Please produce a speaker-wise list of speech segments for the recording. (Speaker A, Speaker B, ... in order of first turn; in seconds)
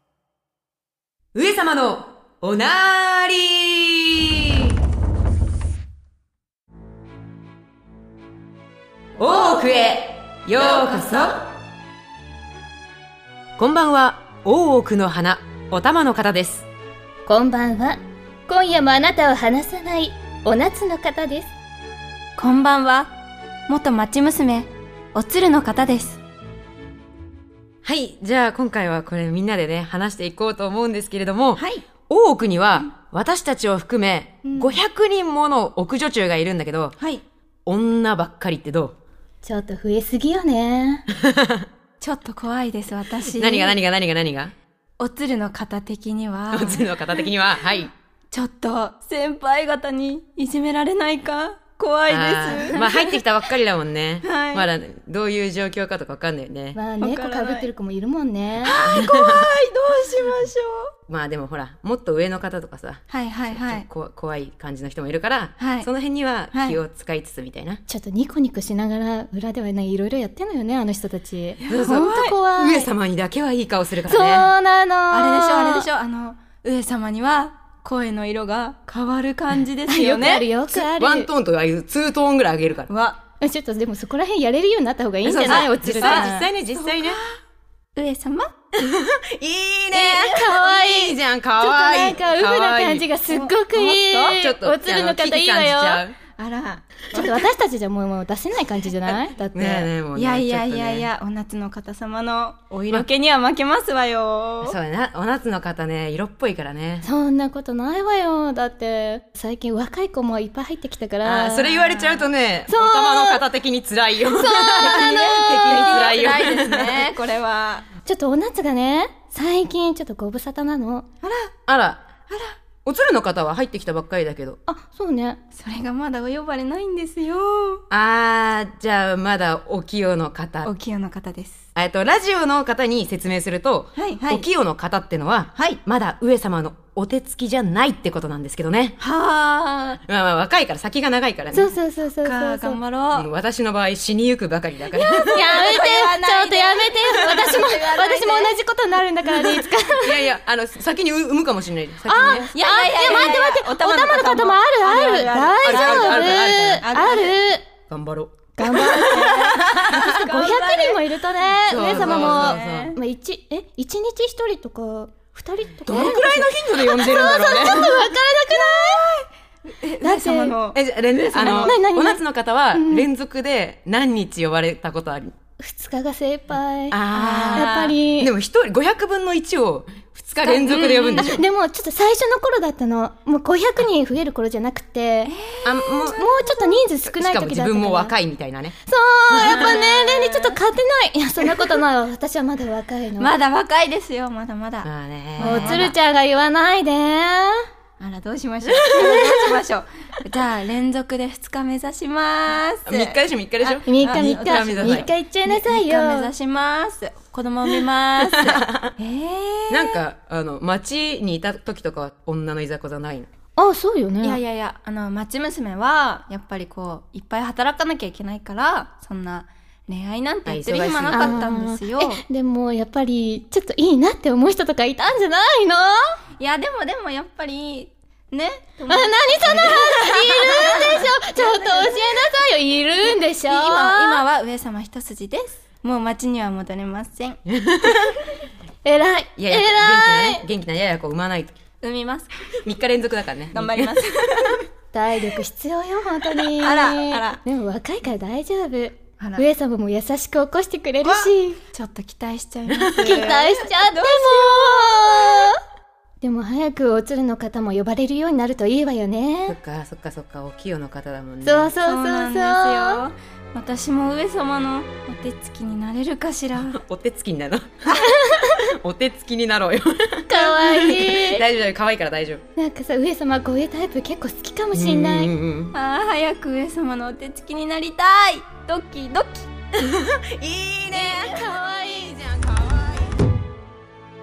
Speaker A: 1.3-4.7, 9.2-11.4, 13.6-16.6, 27.8-37.0, 37.7-39.0, 41.2-41.7, 43.4-44.5, 46.5-47.9, 52.1-56.8, 58.7-59.5, 61.1-67.8, 71.7-74.5, 80.7-82.9, 85.2-87.2, 88.7-93.1, 94.3-96.2, 99.5-101.1, 102.7-103.1, 104.6-107.1, 111.2-117.0, 121.7-122.1, 122.8-124.6, 127.9-130.7, 131.8-139.0, 140.1-141.7, 143.1-145.5, 150.0-152.5, 155.6-156.9, 157.9-158.5, 161.7-163.0, 165.9-168.1, 170.7-175.3, 176.9-181.4, 185.6-188.8, 189.3-189.8, 194.8-195.9, 198.8-199.4, 202.9-205.1, 208.4-208.9, 209.7-213.3, 220.5-221.5, 237.5-238.1, 239.4-241.6, 242.6-244.6, 252.7-253.2, 259.5-261.8, 266.7-267.7, 268.6-272.4, 274.7-275.7, 279.8-281.4
Speaker B: 10.6-11.3, 22.4-23.1, 23.7-26.2, 31.6-31.8, 34.5-34.8, 37.0-37.2, 42.0-43.8, 45.0-47.2, 48.3-53.2, 54.2-54.7, 57.0-57.7, 58.6-60.9, 63.1-63.9, 65.6-65.9, 66.5-66.8, 71.6-72.4, 75.1-80.5, 82.9-83.2, 85.4-87.3, 88.0-88.5, 93.3-94.4, 96.4-97.5, 100.2-104.8, 114.3-117.9, 121.2-121.5, 122.3-122.5, 125.5-127.8, 130.6-131.6, 133.9-134.4, 139.0-140.0, 142.2-143.3, 144.9-148.6, 152.5-157.4, 158.6-163.0, 165.9-166.5, 168.5-169.3, 169.8-171.8, 177.1-178.0, 180.4-181.3, 185.3-185.9, 189.4-190.6, 193.2-196.0, 198.0-210.0, 214.2-222.2, 226.4-232.2, 233.1-237.4, 241.8-242.3, 243.5-244.6, 246.6-247.4, 249.2-249.4, 251.0-255.5, 261.8-266.8, 275.7-279.5
Speaker C: 17.3-21.5, 39.4-41.0, 56.7-58.8, 67.9-72.9, 74.0-75.9, 79.9-81.3, 83.4-86.4, 89.9-96.0, 97.1-99.9, 107.0-113.4, 114.7-116.1, 118.0-121.1, 124.7-125.4, 141.5-142.8, 145.3-150.3, 152.1-157.6, 158.6-169.0, 170.0-170.6, 171.4-173.1, 175.6-178.3, 180.7-185.3, 186.0-188.2, 188.9-193.3, 195.4-197.7, 203.8-206.3, 213.6-214.4, 221.1-226.2, 228.9-234.2, 238.8-240.5, 244.9-251.6, 253.0-255.6, 256.2-259.6, 261.4-263.1, 268.0-268.5, 270.3-271.4, 272.6-275.3, 280.9-282.3